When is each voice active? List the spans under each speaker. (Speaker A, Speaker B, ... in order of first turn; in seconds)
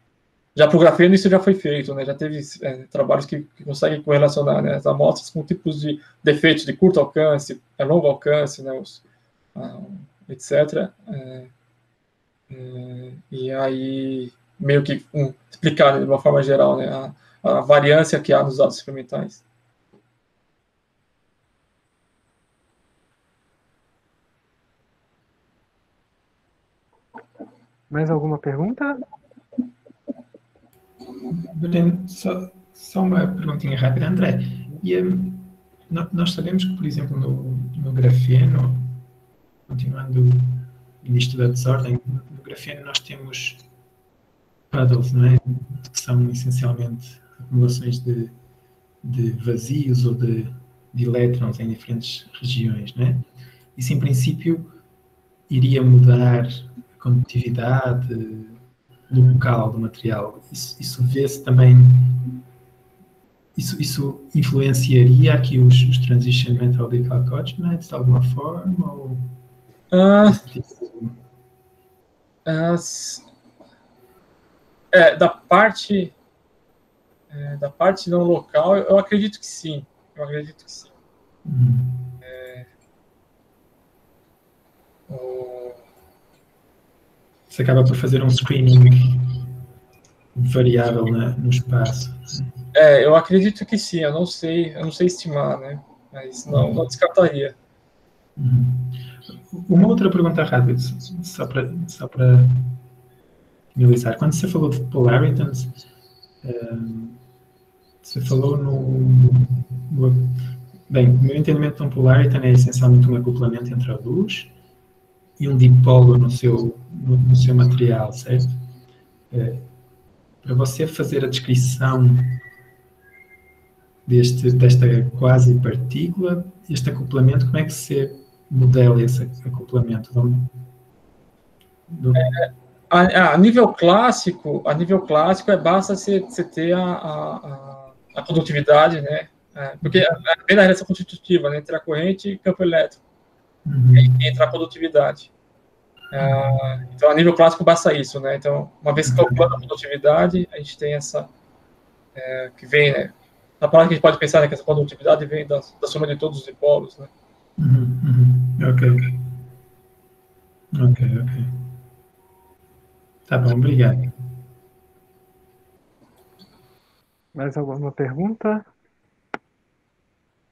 Speaker A: 0.6-9.0, 9.6-11.5, 12.5-19.4, 69.9-70.4, 72.5-73.2, 74.9-76.1, 77.3-80.9, 82.2-82.7, 85.1-85.8, 92.7-97.5, 132.2-143.0, 144.0-145.3, 146.1-151.3, 152.2-157.1
Speaker B: 27.9-29.0, 167.3-168.7
Speaker C: 31.3-39.0, 39.7-43.6, 44.7-48.4, 49.0-53.2, 53.8-54.8, 55.5-62.4, 63.5-69.2, 70.2-71.2, 81.5-82.1, 87.5-89.5, 90.3-92.5, 96.5-96.8, 98.4-102.8, 103.8-105.8, 106.4-107.2, 108.0-114.6, 115.4-118.6, 119.3-119.7, 120.4-122.4, 124.1-130.5, 131.9-132.3, 143.7-144.2, 146.2-146.6, 149.0-149.5, 157.6-159.3, 160.7-161.7, 163.3-164.1